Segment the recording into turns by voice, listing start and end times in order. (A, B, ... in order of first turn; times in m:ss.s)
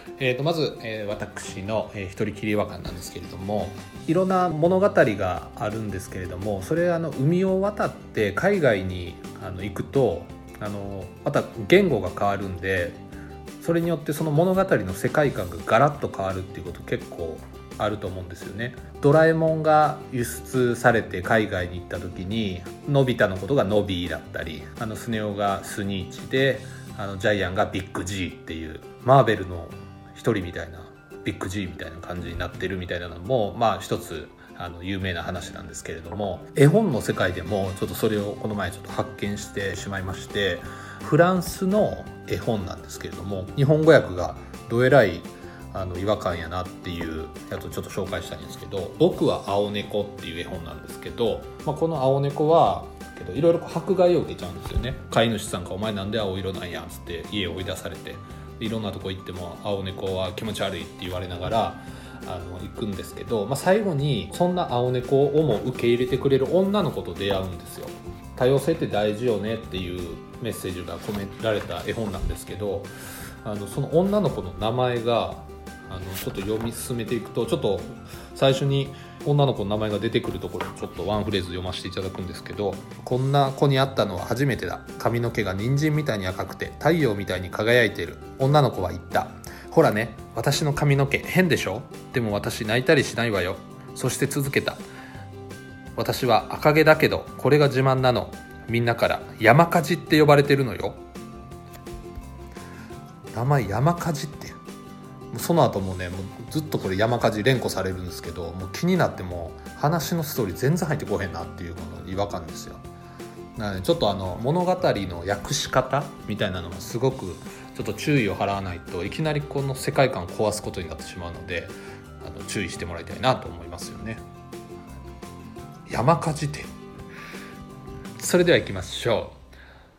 0:00.2-0:13.0 A
0:13.6-1:12.9 A
1:13.4-1:34.8 A
1:36.0-1:41.0 A
1:43.3-1:44.6 A
1:45.3-1:52.8 A
1:53.6-2:04.2 A
2:05.9-2:06.7 A
2:08.2-2:09.4 A